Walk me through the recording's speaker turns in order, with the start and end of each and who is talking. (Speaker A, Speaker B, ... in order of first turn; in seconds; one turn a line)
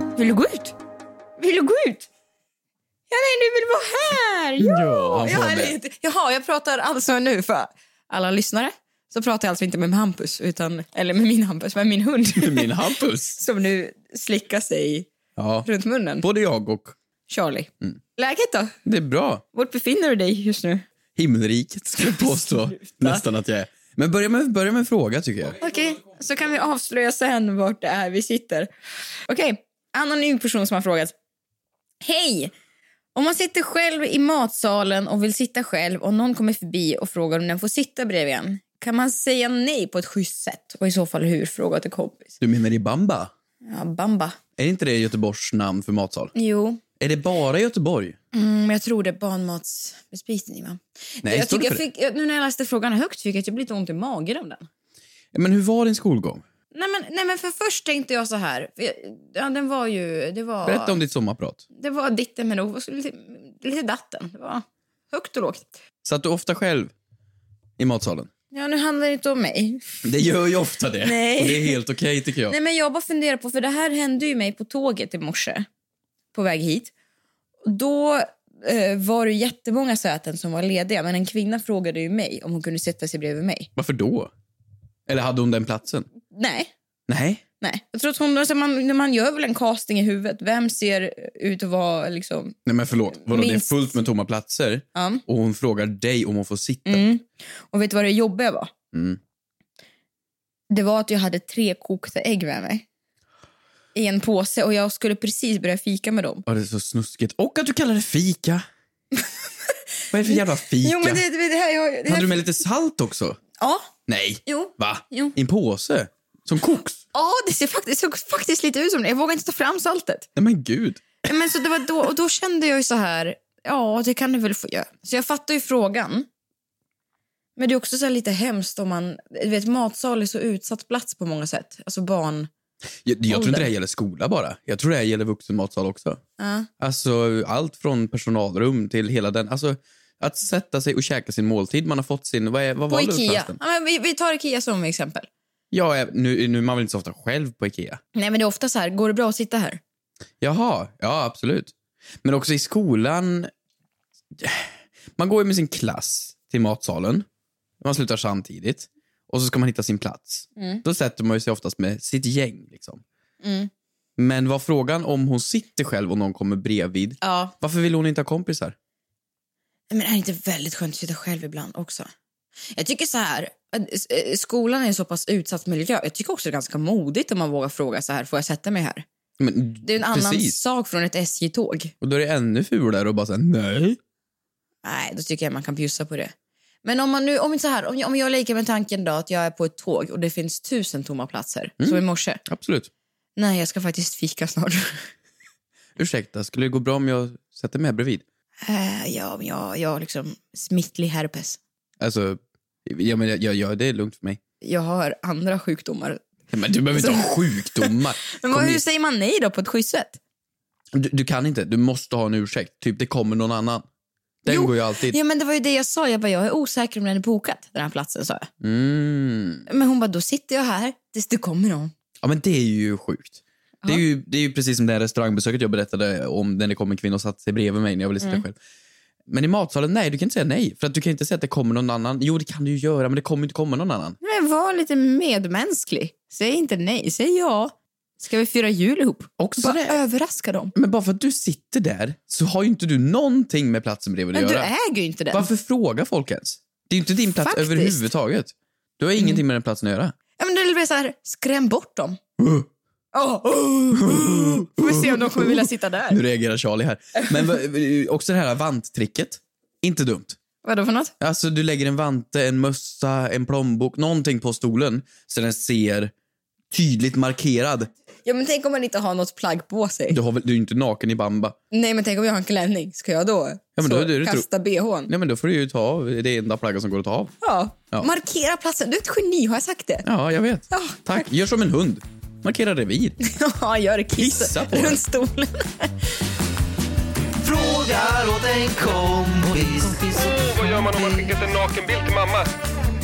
Speaker A: 0.2-0.8
Speaker A: 1.4-2.1
Speaker A: 3.1-15.1
Speaker B: 4.6-5.8
Speaker B: 12.4-13.4
Speaker B: 15.4-15.7
Speaker A: 15.6-16.2
Speaker B: 16.2-17.0
Speaker A: 17.3-18.8
Speaker B: 18.9-19.4
Speaker A: 19.5-20.9
Speaker B: 21.2-25.6
Speaker A: 22.0-23.2
Speaker A: 25.6-28.7
Speaker A: 29.3-31.1
Speaker A: 32.0-32.5
Speaker A: 33.1-42.3
Speaker B: 42.4-43.3
Speaker A: 43.6-44.4
Speaker B: 44.6-46.3
Speaker A: 46.4-46.8
Speaker B: 47.0-48.2
Speaker A: 48.3-54.7
Speaker B: 51.2-51.8
Speaker B: 55.3-56.4
Speaker A: 56.7-61.0
Speaker B: 60.6-61.6
Speaker A: 61.8-65.7
Speaker B: 66.0-66.9
Speaker B: 67.8-68.3
Speaker A: 68.5-69.8
Speaker B: 70.0-72.6
Speaker A: 71.0-71.8
Speaker A: 72.5-75.7
Speaker A: 76.3-76.9
Speaker A: 77.7-83.7
Speaker B: 83.8-84.3
Speaker B: 85.1-86.1
Speaker A: 86.3-86.7
Speaker B: 87.1-87.4
Speaker A: 87.6-92.6
Speaker B: 92.7-97.1
Speaker A: 93.2-93.7
Speaker A: 95.0-95.2
Speaker A: 96.9-98.7
Speaker B: 98.9-99.2
Speaker A: 100.7-102.8
Speaker A: 104.0-106.5
Speaker B: 106.5-108.7
Speaker B: 110.1-111.2
Speaker A: 110.2-112.5
Speaker B: 112.1-113.4
Speaker A: 113.6-113.9
Speaker B: 114.1-117.0
Speaker A: 114.5-115.3
Speaker A: 117.1-120.3
Speaker B: 120.4-121.0
Speaker A: 121.2-126.3
Speaker A: 127.6-132.5
Speaker B: 133.1-136.2
Speaker A: 133.3-133.7
Speaker A: 136.4-136.7
Speaker B: 136.8-143.6
Speaker A: 142.9-145.3
Speaker B: 145.7-148.0
Speaker A: 148.2-149.8
Speaker B: 150.4-153.5
Speaker B: 154.4-157.3
Speaker B: 157.8-163.0
Speaker A: 160.6-160.8
Speaker A: 163.4-163.7
Speaker B: 164.2-168.8
Speaker A: 167.2-167.5
Speaker A: 169.9-172.1
Speaker A: 172.8-179.1
Speaker B: 179.4-180.6
Speaker A: 179.8-181.9
Speaker B: 182.0-184.0
Speaker A: 184.8-186.3
Speaker A: 186.8-192.4
Speaker B: 191.8-192.9
Speaker A: 193.4-195.1
Speaker B: 196.0-198.2
Speaker A: 198.7-201.6
Speaker B: 202.0-204.4
Speaker A: 204.6-206.2
Speaker B: 206.5-208.8
Speaker A: 206.9-210.2
Speaker B: 210.9-213.9
Speaker B: 214.4-215.2
Speaker A: 214.5-218.5
Speaker B: 218.6-219.7
Speaker A: 219.7-221.9
Speaker B: 222.2-228.6
Speaker B: 229.3-234.2
Speaker A: 234.2-240.7
Speaker B: 239.4-240.0
Speaker B: 240.7-244.7
Speaker A: 244.3-245.5
Speaker B: 245.3-250.2
Speaker A: 247.4-248.1
Speaker A: 249.2-249.4
Speaker A: 250.4-252.2
Speaker B: 252.4-252.7
Speaker A: 253.1-256.2
Speaker B: 254.0-260.4
Speaker A: 257.1-257.5
Speaker A: 260.6-261.1
Speaker B: 261.2-266.1
Speaker B: 266.7-267.9
Speaker A: 268.2-270.2
Speaker B: 270.1-271.6
Speaker A: 271.7-275.1
Speaker B: 273.8-274.5
Speaker B: 275.1-277.3
Speaker A: 277.4-280.1
Speaker B: 280.1-283.2
Speaker A: 280.7-281.3
Speaker A: 283.2-285.9
Speaker B: 284.2-285.0
Speaker C: 287.4-291.4
Speaker D: 290.2-292.5